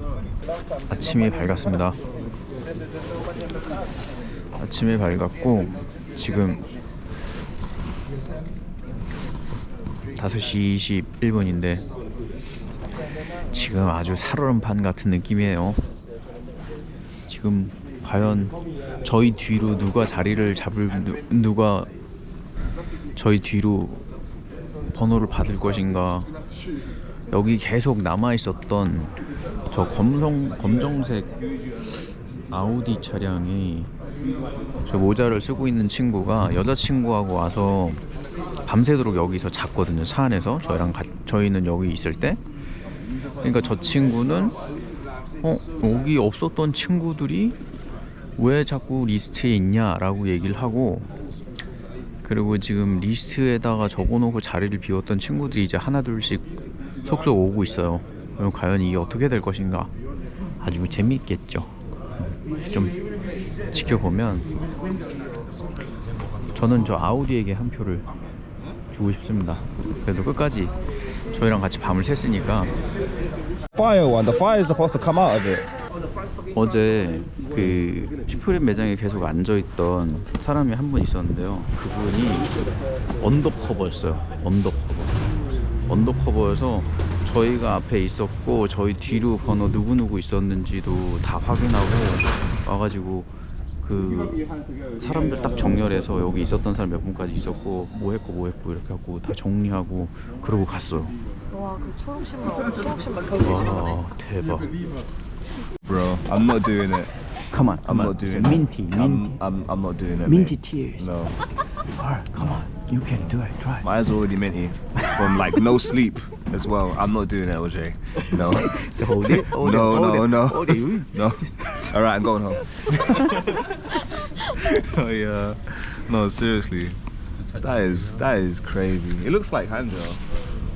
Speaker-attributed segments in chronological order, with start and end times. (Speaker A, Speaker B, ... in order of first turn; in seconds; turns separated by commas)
Speaker A: 0.9-2.0, Speaker A: 4.6-6.6, Speaker A: 10.2-11.8, Speaker A: 13.5-15.8, Speaker A: 17.3-21.9, Speaker A: 23.1-24.0, Speaker A: 24.9-26.3, Speaker A: 27.3-29.1, Speaker A: 29.7-31.3, Speaker A: 32.5-33.9, Speaker A: 34.9-38.0, Speaker A: 38.6-42.4, Speaker A: 43.4-44.6, Speaker A: 45.4-47.6, Speaker A: 48.4-51.1, Speaker A: 52.2-56.5, Speaker A: 57.0-59.9, Speaker A: 60.6-61.7, Speaker A: 63.7-64.5, Speaker A: 66.5-68.1, Speaker A: 68.9-70.7, Speaker A: 71.3-72.7, Speaker B: 73.7-75.7, Speaker A: 76.5-82.5, Speaker A: 83.2-85.2, Speaker A: 85.8-94.4, Speaker A: 95.0-101.2, Speaker C: 101.5-104.0, Speaker A: 103.4-104.7, Speaker B: 105.8-107.1, Speaker A: 107.5-109.4, Speaker B: 107.8-111.3, Speaker A: 110.2-111.1, Speaker A: 111.8-113.9, Speaker B: 113.8-123.7, Speaker A: 115.0-115.6, Speaker A: 118.3-121.9, Speaker A: 122.9-123.3, Speaker B: 124.5-127.0, Speaker B: 127.6-130.2